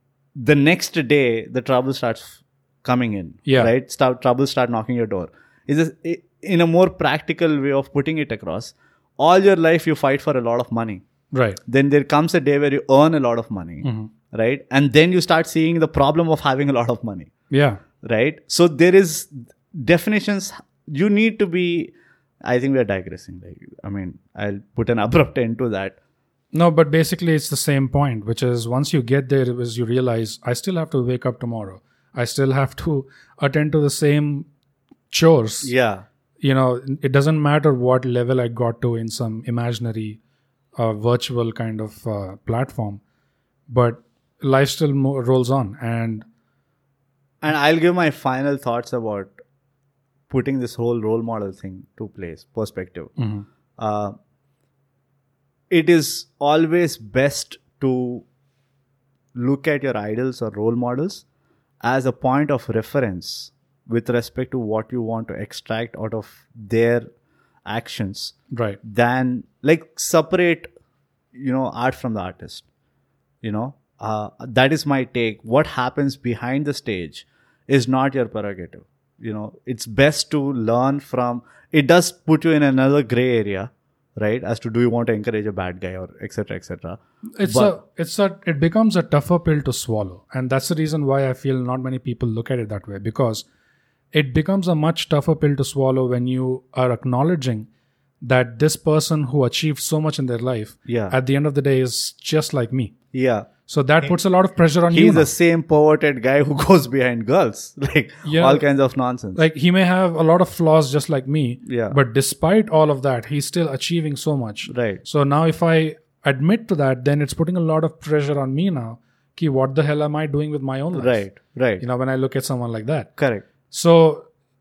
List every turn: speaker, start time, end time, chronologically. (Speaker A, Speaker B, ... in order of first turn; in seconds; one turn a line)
Speaker A: 0.3-11.0
Speaker B: 3.5-3.7
Speaker B: 11.3-11.6
Speaker A: 11.7-17.3
Speaker B: 13.8-14.1
Speaker B: 17.5-17.8
Speaker A: 18.0-21.9
Speaker A: 22.4-25.9
Speaker B: 26.5-34.5
Speaker B: 35.1-35.7
Speaker A: 35.6-36.0
Speaker B: 36.4-40.2
Speaker B: 40.8-43.0
Speaker B: 43.7-46.2
Speaker A: 47.4-49.3
Speaker A: 50.3-53.1
Speaker B: 53.2-53.5
Speaker A: 53.8-54.1
Speaker A: 55.7-58.2
Speaker A: 59.3-61.2
Speaker A: 61.8-67.1
Speaker A: 67.7-70.7
Speaker B: 68.5-68.8
Speaker A: 71.3-72.6
Speaker A: 73.4-87.8
Speaker B: 87.4-93.5
Speaker B: 94.1-97.7
Speaker B: 98.2-102.9
Speaker A: 100.9-101.1
Speaker A: 103.1-103.5
Speaker B: 103.7-105.3
Speaker A: 104.9-109.4
Speaker B: 108.2-108.6
Speaker B: 109.3-121.2
Speaker A: 111.6-112.0
Speaker A: 114.7-115.0
Speaker A: 120.9-121.8
Speaker B: 121.8-123.1
Speaker A: 123.2-123.4
Speaker B: 123.7-124.2